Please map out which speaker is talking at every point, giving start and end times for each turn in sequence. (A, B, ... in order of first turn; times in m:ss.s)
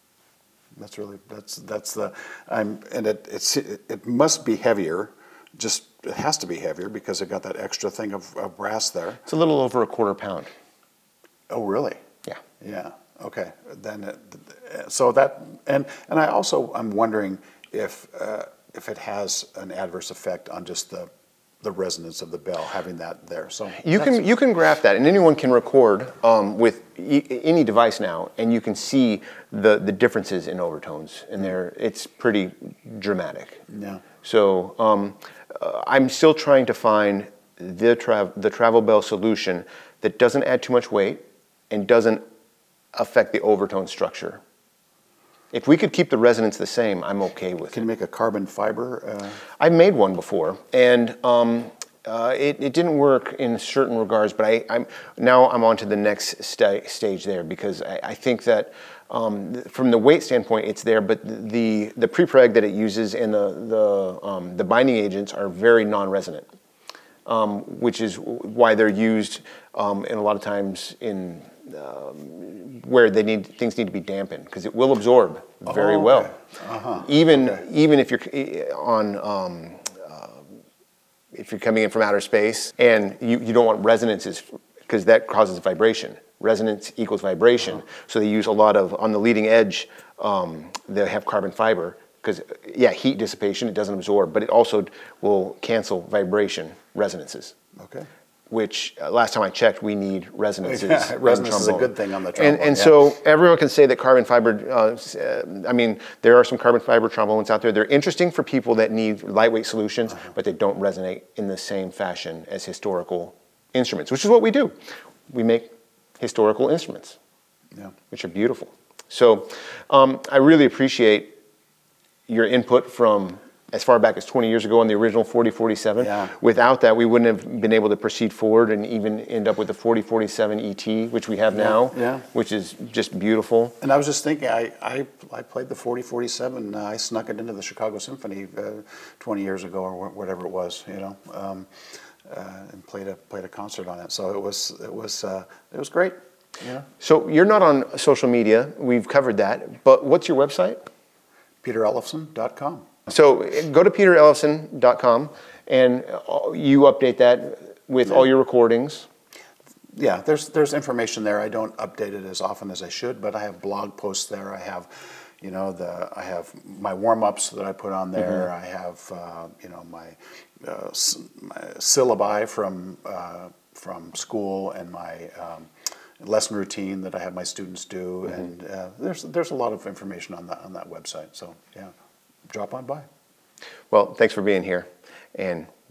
0:00.8-0:09.2 A
0:09.2-0:10.5 B
0:11.5-0:12.0 A
0:12.6-0:21.1 A
0:21.6-0:24.2 A
0:23.8-0:33.6 B
0:33.7-0:34.0 A
0:34.2-0:42.2 B
0:42.9-0:44.4 B
0:45.5-0:47.8 B
0:47.7-0:49.4 A
0:49.6-1:06.4 B
1:07.2-1:16.3 B
1:15.6-1:17.6 A
1:17.0-1:20.5 B
1:21.3-1:37.5 B
1:37.8-1:38.1 A
1:38.5-1:54.7 B
1:40.6-1:43.0 A
1:55.3-1:57.2 B
1:58.1-2:01.4 B
2:02.3-2:13.7 B
2:06.0-2:06.3 A
2:11.5-2:12.2 A
2:13.8-2:26.9 A
2:27.0-2:30.8 B
2:31.6-2:33.0 A
2:33.1-2:39.1 B
2:39.9-3:01.9 A
3:02.5-3:03.0 A
3:03.9-3:05.7 B